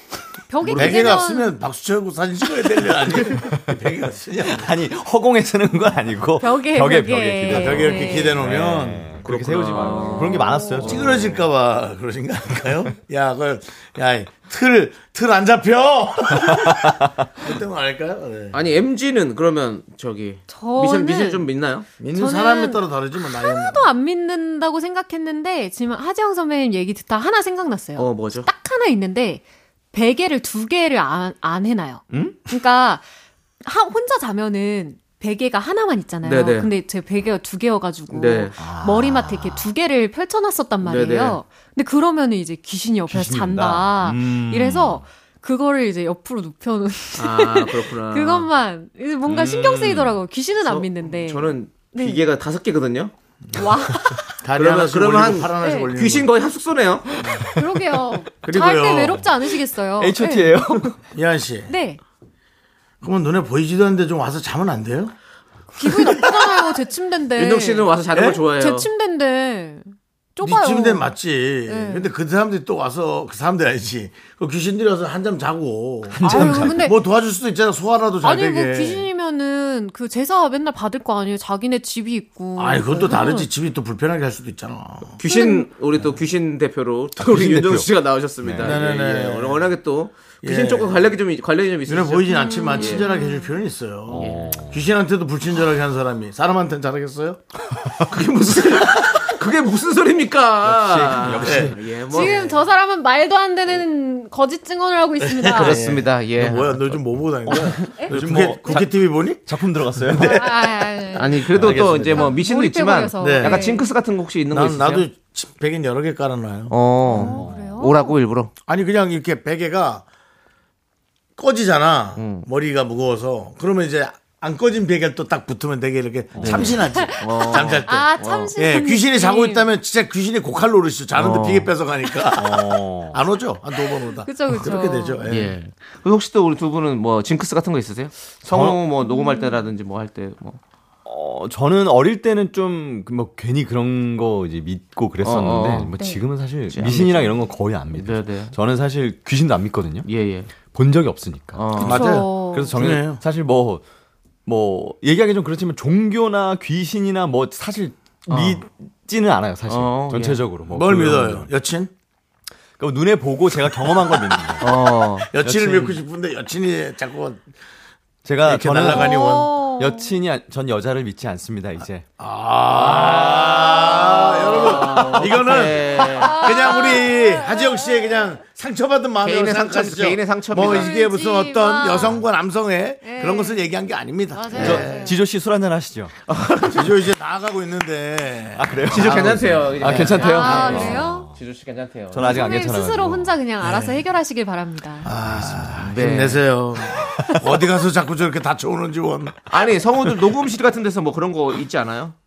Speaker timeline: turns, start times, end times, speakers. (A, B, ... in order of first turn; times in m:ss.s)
0:00.5-0:01.6 A
0:00.6-0:01.2 B
0:00.7-0:04.7 C
0:04.5-0:11.1 D
0:06.4-0:08.5 A
0:07.5-0:09.2 C
0:09.2-0:11.5 B
0:09.7-0:10.8 A
0:10.8-0:18.6 C
0:18.5-0:21.9 B
0:20.5-0:21.4 A
0:22.0-0:23.9 C
0:22.1-0:33.1 A
0:28.0-0:28.5 B
0:32.1-0:32.4 D
0:33.6-0:52.2 A
0:36.2-0:36.7 B
0:38.1-0:38.5 B
0:38.6-0:39.7 D
0:40.8-0:41.4 B
0:43.1-0:45.0 D
0:47.2-0:48.5 B
0:49.3-0:50.2 D
0:50.6-0:53.1 B
0:53.6-0:54.4 A
0:54.4-0:56.3 C
0:54.6-0:57.1 B
0:55.6-0:55.9 A
0:57.2-1:01.0 A
0:58.4-0:59.2 C
1:00.0-1:01.0 D
1:01.1-1:01.7 C
1:01.7-1:02.0 A
1:03.0-1:05.2 C
1:05.7-1:12.1 A
1:07.4-1:08.9 B
1:10.4-1:19.1 C
1:16.1-1:16.9 D
1:16.2-1:17.0 A
1:18.2-1:23.5 A
1:22.6-1:25.2 C
1:25.2-1:33.0 B
1:25.3-1:25.7 A
1:27.2-1:27.9 D
1:28.4-1:28.8 D
1:28.6-1:29.7 C
1:30.4-1:31.0 C
1:31.9-1:37.4 C
1:32.3-1:33.6 A
1:34.1-1:34.8 D
1:38.1-1:42.6 B
1:40.6-1:41.8 D
1:41.4-1:41.8 C
1:42.0-1:45.9 A
1:45.2-1:50.7 C
1:45.5-1:46.9 B
1:47.5-1:48.1 A
1:48.1-1:50.5 D
1:50.1-1:51.4 A
1:51.1-1:55.1 B
1:51.5-1:52.3 C
1:51.6-1:52.0 D
1:52.1-1:53.9 A
1:53.2-1:53.6 C
1:54.5-1:56.7 C
1:56.7-1:58.5 B
1:57.1-1:58.1 A
1:57.2-1:57.8 D
1:58.7-2:00.1 C
2:01.4-2:15.6 C
2:02.2-2:02.5 B
2:06.4-2:06.8 D
2:06.4-2:08.5 B
2:06.9-2:09.7 A
2:11.1-2:11.7 B
2:12.3-2:13.2 D
2:13.9-2:15.2 A
2:15.3-2:20.6 B
2:18.5-2:18.8 D
2:18.9-2:19.6 A
2:21.1-2:30.1 D
2:25.2-2:25.9 B
2:25.9-2:26.3 A
2:26.7-2:27.4 B
2:27.9-2:28.6 B
2:30.0-2:30.5 B
2:30.7-2:31.6 D
2:31.6-2:32.1 B
2:31.8-2:32.8 A
2:31.8-2:33.2 C
2:32.4-2:33.8 D
2:34.4-2:41.5 D
2:38.3-2:38.6 B
2:39.7-2:40.4 B
2:40.7-2:41.9 C
2:42.8-2:44.7 D
2:44.6-2:45.3 B
2:45.3-2:47.4 C
2:45.4-2:46.0 D
2:48.2-2:52.1 D
2:48.4-2:49.6 C
2:48.9-2:50.2 A
2:52.2-3:05.1 C
2:52.8-2:56.7 B
2:56.1-2:58.2 A
2:59.2-3:00.9 B
3:00.6-3:02.2 A
3:03.0-3:03.6 A
3:04.3-3:05.2 A
3:04.5-3:04.9 B
3:04.6-3:06.1 D
3:06.3-3:06.9 B
3:06.7-3:10.3 C
3:08.6-3:11.3 D
3:08.9-3:12.5 B
3:10.2-3:11.3 A
3:12.1-3:13.3 D
3:12.2-3:15.1 A
3:13.6-3:14.0 C
3:15.0-3:19.4 C
3:15.8-3:16.4 B
3:17.2-3:17.5 D
3:19.5-3:22.2 B